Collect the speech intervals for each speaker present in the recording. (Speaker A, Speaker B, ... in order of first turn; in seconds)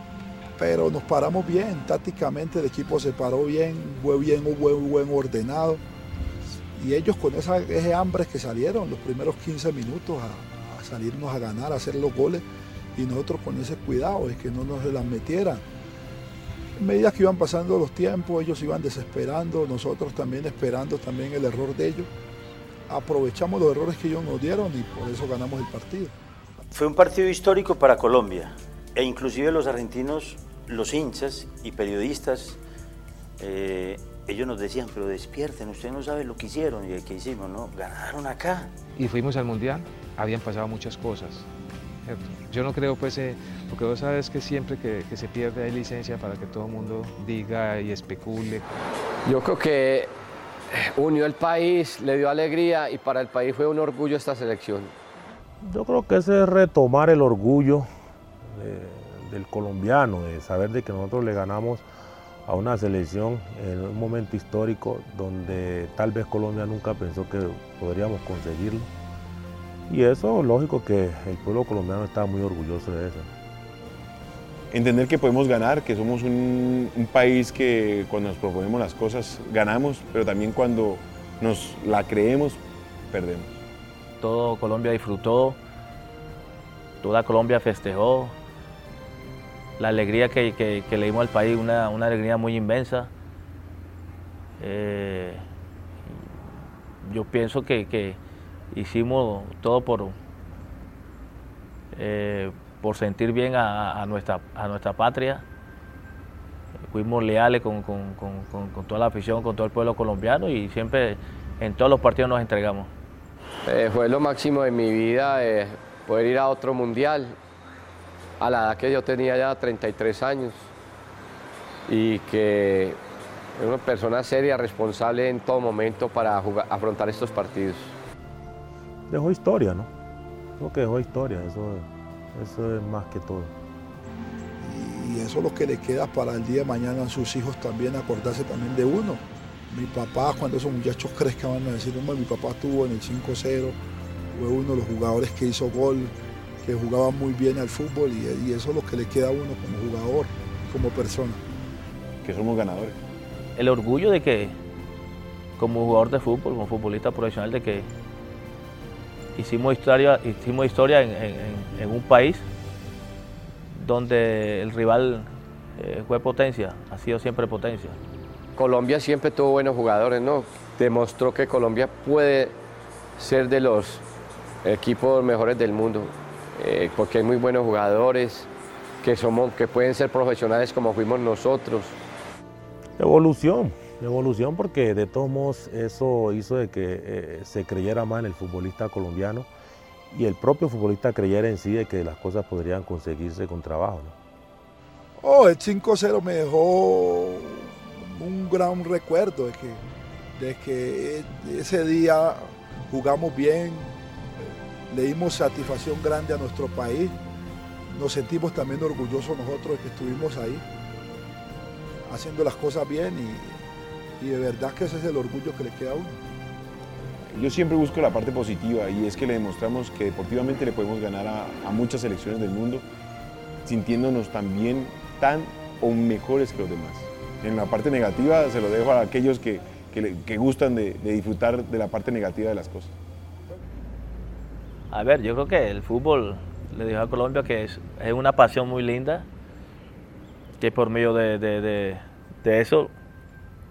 Speaker A: 0.6-5.8, 6.7-12.4, 12.9-15.6, 16.8-22.1, 22.9-26.1, 134.6-143.8, 144.3-151.4, 195.2-199.8, 200.3-203.9, 204.9-207.1, 207.9-210.6, 212.1-213.6, 214.2-216.2
Speaker B: 26.7-32.6, 33.4-38.7
Speaker C: 39.0-41.5, 42.0-48.7
Speaker D: 49.2-50.1, 50.7-54.9, 113.7-117.4, 118.4-120.7, 121.9-123.0, 123.5-128.0, 168.6-172.6, 173.2-174.0, 174.6-178.5, 179.0-182.0
Speaker E: 55.6-57.9, 58.5-61.8, 62.5-68.9, 69.9-73.3, 129.1-129.9, 130.6-133.5, 183.0-189.5, 190.1-194.1
Speaker F: 74.7-83.5, 152.2-153.0, 217.3-222.8, 223.6-232.9
Speaker G: 84.2-85.6, 87.0-88.3, 89.8-93.1, 94.6-95.4, 97.0-98.2, 98.7-100.2, 101.9-105.4, 106.9-112.9, 153.6-154.6, 155.6-157.9, 159.3-162.4, 163.7-168.0, 234.9-239.2, 240.6-242.9